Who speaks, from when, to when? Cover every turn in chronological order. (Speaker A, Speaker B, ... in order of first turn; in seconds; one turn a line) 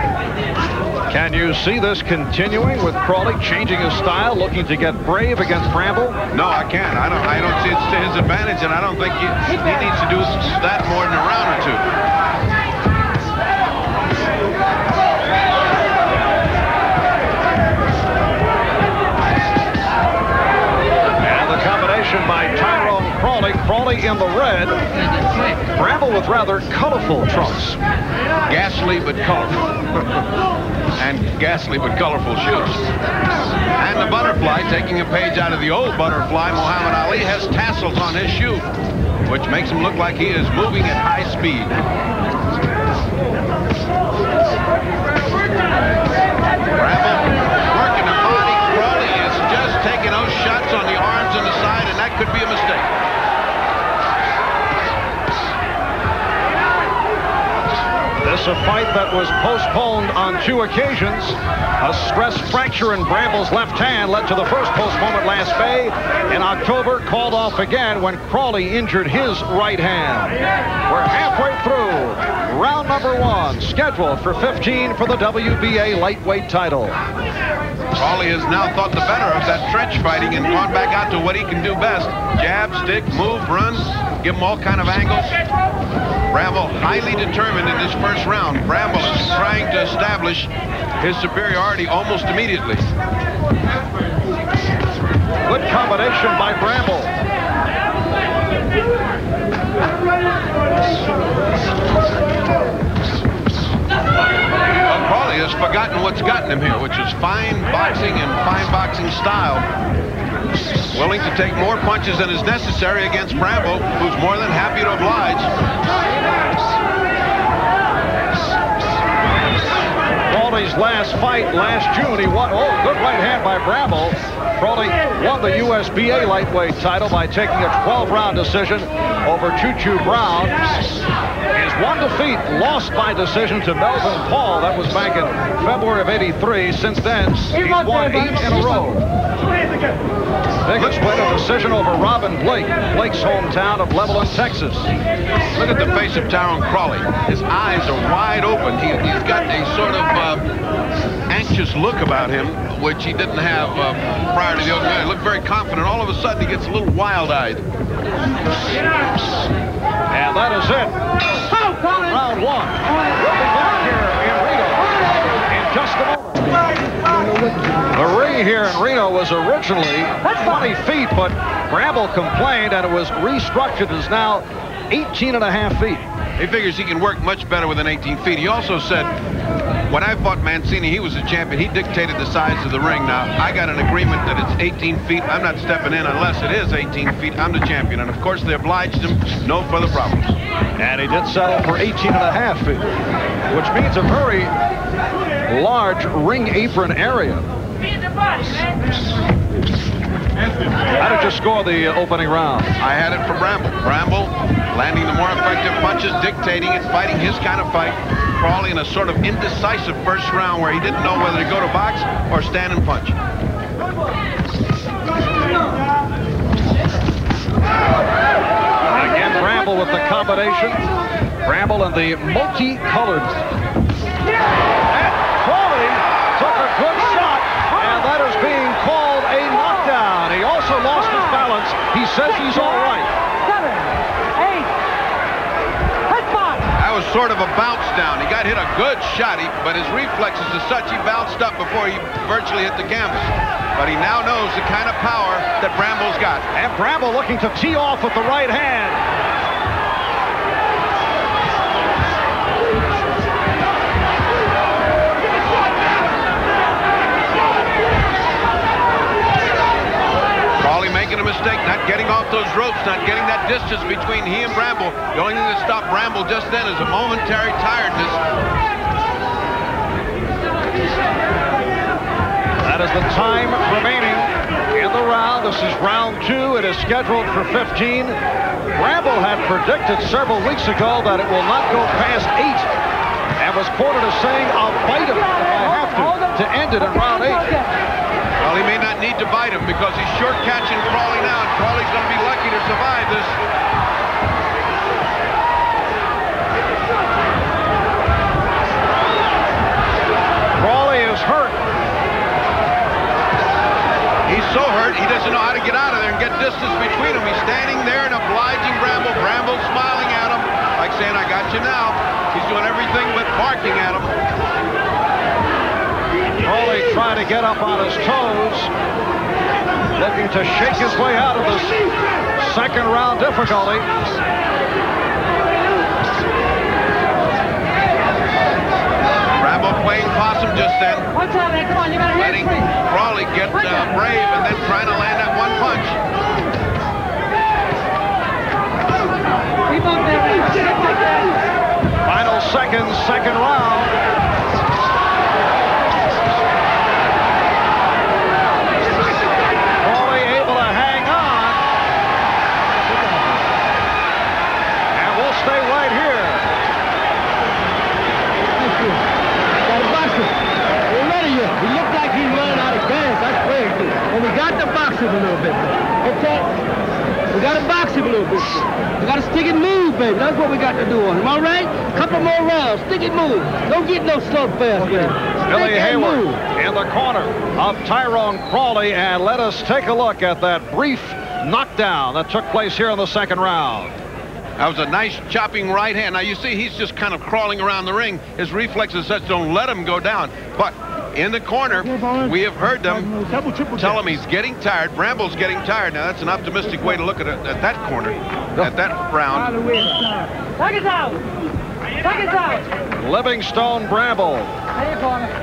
Speaker A: 1.1-6.2
Speaker B: 6.3-11.8
Speaker A: 21.2-24.8
Speaker A: 25.7-27.8
Speaker B: 28.5-29.7
Speaker B: 31.0-32.8
Speaker B: 33.8-38.6
Speaker B: 39.3-41.8
Speaker B: 46.8-52.9
Speaker A: 58.2-77.0
Speaker B: 78.0-85.4
Speaker B: 86.3-92.9
Speaker A: 95.5-97.1
Speaker B: 104.9-109.7
Speaker B: 110.9-115.5
Speaker A: 120.3-130.7
Speaker A: 131.6-139.0
Speaker A: 140.7-144.9
Speaker B: 140.8-141.1
Speaker B: 145.6-150.4
Speaker B: 151.3-157.7
Speaker A: 160.1-161.0
Speaker A: 161.9-166.6
Speaker A: 167.9-176.1
Speaker B: 176.4-179.1
Speaker B: 179.9-190.4
Speaker A: 190.8-192.9
Speaker A: 193.5-194.5
Speaker A: 195.5-197.5
Speaker A: 201.0-202.7
Speaker B: 202.8-213.2
Speaker A: 218.9-220.9
Speaker A: 221.5-223.4
Speaker A: 224.9-233.1
Speaker C: 233.4-234.7
Speaker C: 236.1-236.6
Speaker B: 236.8-246.5
Speaker A: 246.6-249.0
Speaker B: 260.6-268.2
Speaker A: 272.6-278.2
Speaker A: 278.7-282.7
Speaker A: 283.4-287.6
Speaker B: 288.4-293.4
Speaker A: 300.6-301.6
Speaker B: 304.3-314.1
Speaker A: 316.4-318.7
Speaker A: 320.0-321.8
Speaker A: 322.4-323.9
Speaker B: 329.4-331.1
Speaker C: 331.2-332.5
Speaker B: 332.1-336.0
Speaker C: 339.7-341.1
Speaker A: 342.1-343.9
Speaker A: 349.8-351.6
Speaker A: 354.9-356.5
Speaker D: 358.6-359.0
Speaker D: 359.7-360.4
Speaker D: 360.9-366.5
Speaker D: 367.3-375.2
Speaker A: 375.5-383.9
Speaker D: 376.0-376.4
Speaker B: 384.6-393.1
Speaker B: 393.7-399.6
Speaker C: 400.6-401.2
Speaker C: 402.0-402.6
Speaker A: 403.0-404.6
Speaker C: 404.8-405.3